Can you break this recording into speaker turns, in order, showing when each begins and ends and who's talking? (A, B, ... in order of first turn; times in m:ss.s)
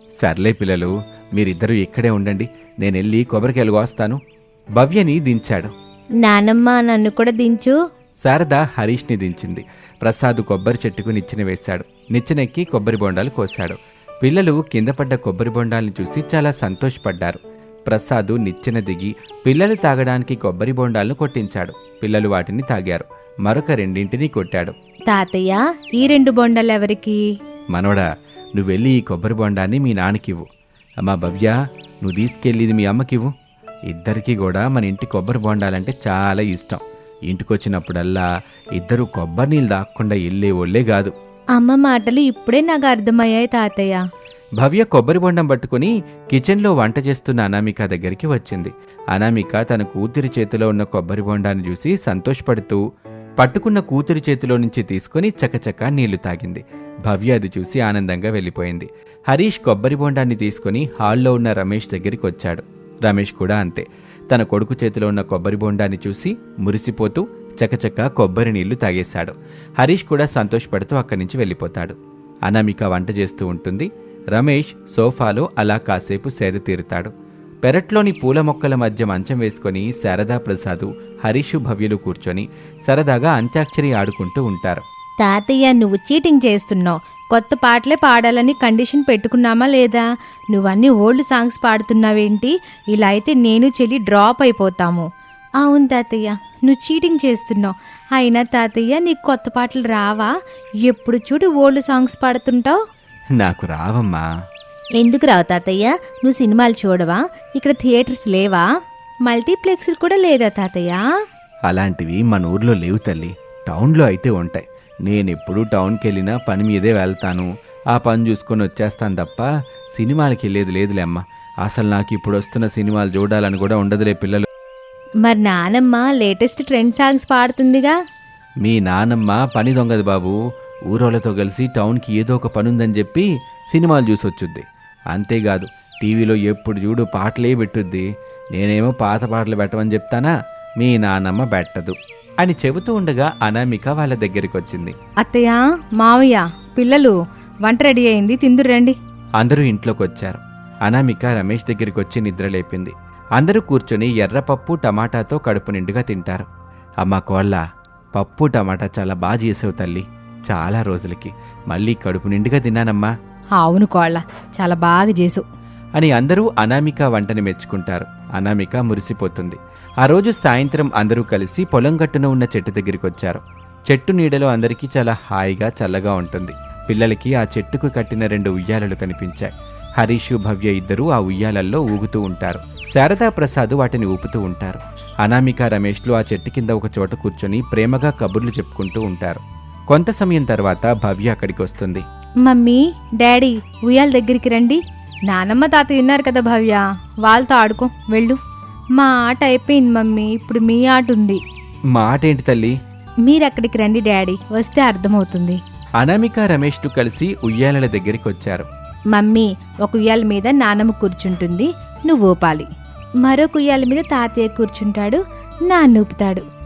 0:00.2-0:04.2 A
0:04.8-0:05.7 A
0:06.2-0:07.7 B
0:08.2-0:24.7 A
0:25.1-0:27.2 B
0:27.7-0:30.5 A
0:31.0-0:33.3 A
0:33.9-0:41.1 A
0:41.6-0:44.0 B
0:44.6-0:52.8 A
0:53.4-1:17.1 A
1:17.6-1:24.8 A
1:25.2-1:35.0 B
1:35.6-1:40.3 B
1:40.8-1:42.8 B
1:43.4-1:44.3 A
1:45.0-1:48.7 B
1:49.2-1:51.0 B
1:51.7-2:04.5 A
2:05.2-2:07.9 B
2:08.6-2:10.4 A
2:10.9-2:24.9 A
2:25.2-2:28.9 B
2:29.4-2:36.5 A
2:37.0-2:37.6 A
2:38.1-2:43.1 A
2:43.6-2:45.4 B
2:46.0-3:12.0 A
3:12.4-3:18.4 B
3:19.0-3:21.4 B
3:21.9-3:22.8 A
3:23.2-3:25.6 B
3:26.0-3:28.7 A
3:29.1-3:32.7 B
3:33.2-3:36.4 B